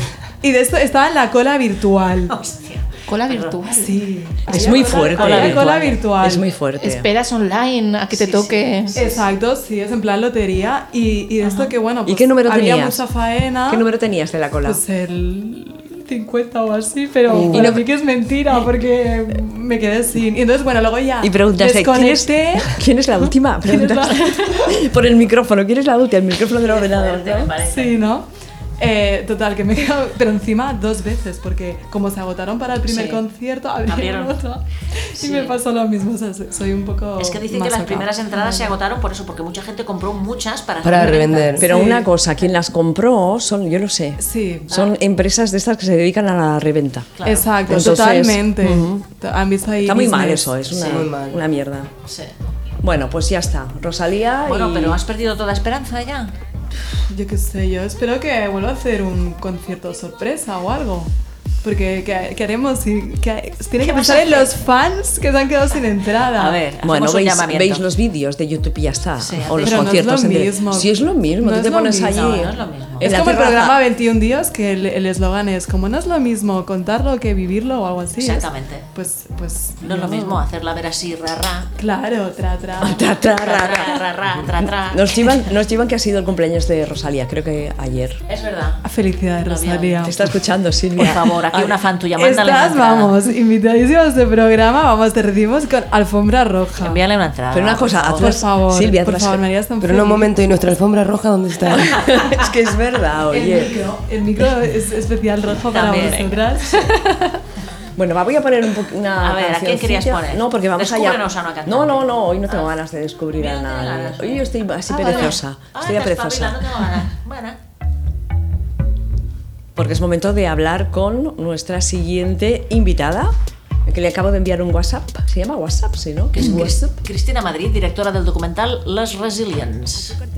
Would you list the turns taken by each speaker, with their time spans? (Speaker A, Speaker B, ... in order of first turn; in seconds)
Speaker A: 0.4-2.4, 3.7-6.5, 8.9-13.8, 14.7-24.8, 27.7-28.3, 28.8-38.7, 41.6-42.1, 44.2-44.8, 47.2-50.5, 57.1-61.1, 61.6-66.6, 69.6-72.2, 73.0-80.4, 81.8-83.0, 88.8-90.2, 92.2-97.0, 98.2-100.3, 103.3-107.4
Speaker B: 2.3-3.7, 4.5-6.0, 8.1-9.2, 11.4-11.7, 26.6-27.9, 32.9-33.2, 33.9-34.4, 35.2-35.6, 37.2-41.7, 47.2-47.5, 50.7-51.1, 52.1-52.3, 54.5-56.3, 63.8-64.5, 66.3-67.8, 69.2-70.0, 72.1-73.1, 78.2-78.9, 79.8-81.7, 83.4-85.5, 88.3-88.8, 89.4-90.1, 91.0-93.1, 96.8-98.3, 105.7-106.8, 109.2-112.7, 113.4-117.6, 126.3-130.2
Speaker C: 3.1-4.0, 6.8-9.0
Speaker D: 4.5-7.1, 12.1-13.0, 13.7-14.8, 17.5-17.8, 21.2-27.5, 41.6-47.1, 47.7-49.0, 49.8-51.9, 52.8-55.0, 66.8-73.8, 82.8-84.0, 84.6-88.2, 90.1-91.8, 97.5-99.4, 101.7-103.8, 108.0-116.7, 119.8-123.3, 123.9-127.0
Speaker E: 17.3-17.7, 40.8-41.7, 47.7-48.0, 50.8-51.4, 99.8-102.1